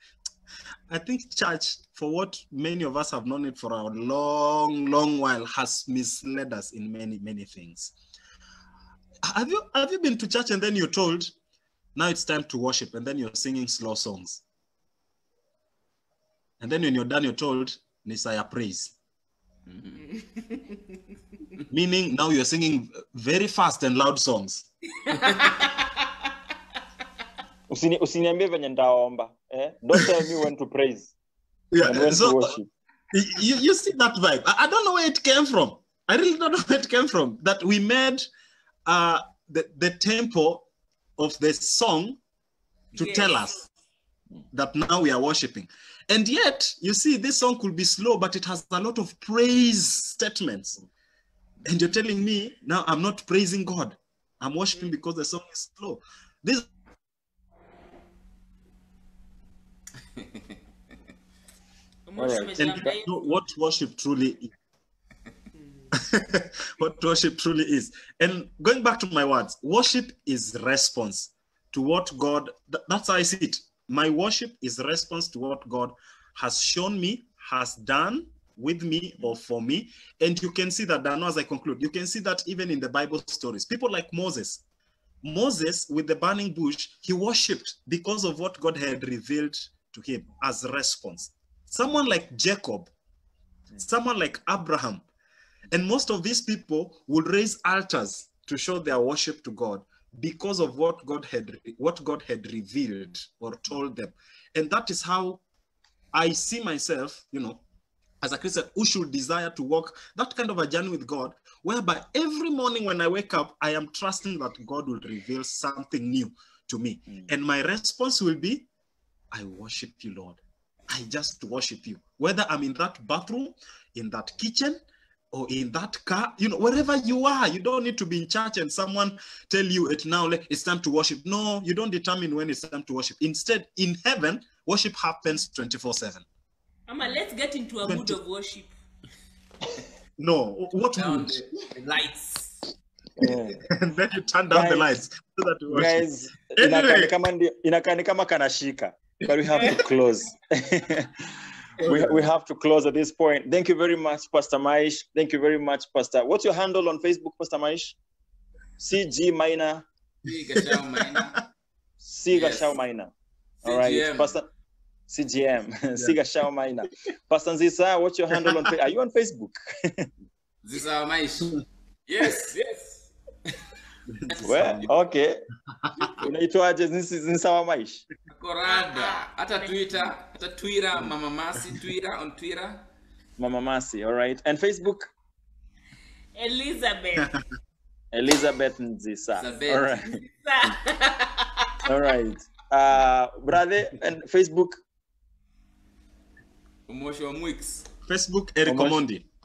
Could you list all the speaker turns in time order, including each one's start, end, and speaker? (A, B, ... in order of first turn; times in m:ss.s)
0:00.9-0:07.9 A
0:09.2-0:11.3 A
0:11.9-0:14.4 A
0:16.6-0:18.9 A
0:19.7-0:20.0 B
0:20.4-0:20.8 C
0:21.7-0:24.7 A
0:25.1-0:25.9 C
0:27.7-0:31.1 D
0:31.7-0:32.6 A
0:31.8-0:32.7 D
0:33.1-0:38.3 A
0:38.8-0:40.6 A
0:41.2-0:42.2 A
0:42.9-0:43.7 A
0:43.0-0:43.6 C
0:44.5-0:50.8 A
0:51.6-0:56.7 A
1:02.1-1:03.4 C
1:02.2-1:02.5 D
1:02.6-1:04.5 A
1:05.5-1:05.9 C
1:05.9-1:24.6 A
1:25.2-1:32.9 A
1:33.8-1:35.0 A
1:35.7-1:45.4 A
1:46.1-1:47.6 A
1:48.2-1:58.7 A
1:59.3-2:04.8 A
2:05.3-2:16.2 A
2:16.9-2:18.7 C
2:17.8-2:18.2 A
2:20.2-2:21.4 A
2:21.0-2:22.7 B
2:23.2-2:23.6 D
2:23.2-2:27.1 A
2:24.5-2:25.0 D
2:25.7-2:31.2 D
2:29.3-2:29.8 A
2:31.8-2:32.3 A
2:31.8-2:38.0 D
2:38.8-2:39.8 D
2:40.2-2:41.4 B
2:40.5-2:41.3 A
2:42.0-2:43.1 D
2:42.3-2:42.8 B
2:43.6-2:44.3 B
2:43.6-2:44.5 D
2:45.1-2:50.1 D
2:50.6-2:53.6 B
2:54.2-2:54.9 B
2:54.3-2:54.9 A
2:54.4-2:55.4 D
2:55.8-2:56.1 A
2:56.2-2:58.0 D
2:58.3-3:02.8 B
2:58.7-2:59.8 C
3:03.4-3:05.1 D
3:06.3-3:07.4 C
3:08.1-3:10.2 D
3:09.4-3:10.0 B
3:10.1-3:11.8 C
3:11.8-3:14.8 D
3:16.9-3:17.9 B
3:18.1-3:19.2 A
3:18.6-3:19.0 D